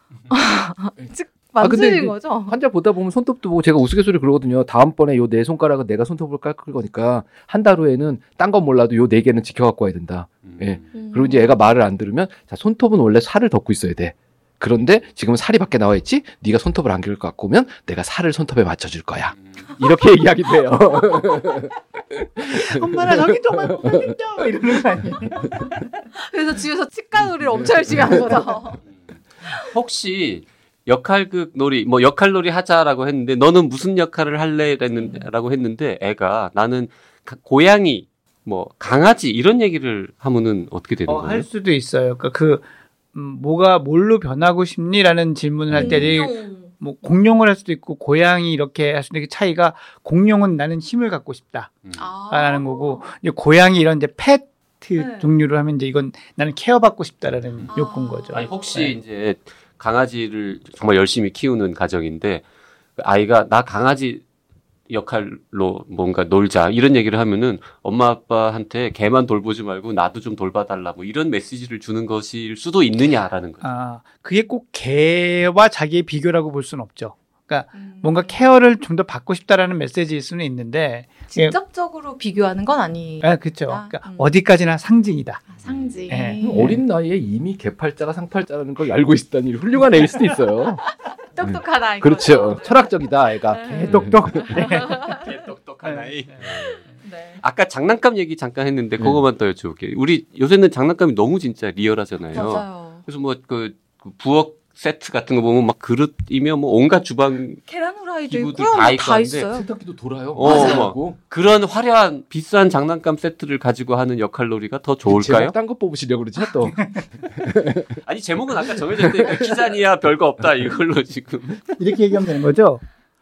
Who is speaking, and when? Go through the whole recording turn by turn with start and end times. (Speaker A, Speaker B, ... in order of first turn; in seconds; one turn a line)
Speaker A: 0.3-2.6
Speaker B: 1.0-24.1
Speaker C: 10.4-10.9
Speaker A: 10.9-11.6
Speaker C: 19.4-19.7
Speaker D: 22.6-25.9
Speaker B: 25.1-25.7
Speaker A: 26.2-28.8
Speaker B: 27.2-28.3
Speaker C: 29.6-41.5
Speaker D: 41.1-51.7
Speaker C: 45.7-46.1
Speaker A: 45.8-46.7
Speaker A: 52.0-53.0
Speaker D: 52.3-59.0
Speaker A: 55.0-55.3
Speaker A: 57.7-58.5
Speaker C: 58.3-62.4
Speaker C: 63.0-64.2
Speaker C: 64.9-73.7
Speaker D: 73.6-81.6
Speaker A: 77.8-78.4
Speaker A: 81.3-84.3
Speaker D: 83.2-85.5
Speaker C: 85.6-86.0
Speaker A: 85.6-86.8
Speaker D: 86.1-86.8
Speaker B: 86.4-90.8
Speaker A: 90.8-93.0
Speaker B: 91.4-94.7
Speaker A: 93.5-95.2
Speaker D: 93.7-95.2
Speaker C: 94.8-96.8
Speaker D: 95.8-96.6
Speaker A: 97.0-97.4
Speaker C: 97.4-107.6
Speaker A: 102.3-103.0
Speaker A: 107.7-109.7
Speaker C: 108.3-109.5
Speaker B: 109.5-111.2
Speaker C: 110.3-115.6
Speaker A: 110.4-110.9
Speaker B: 115.1-118.0
Speaker D: 116.6-117.0
Speaker C: 118.0-121.6
Speaker B: 119.0-119.4
Speaker D: 121.8-122.8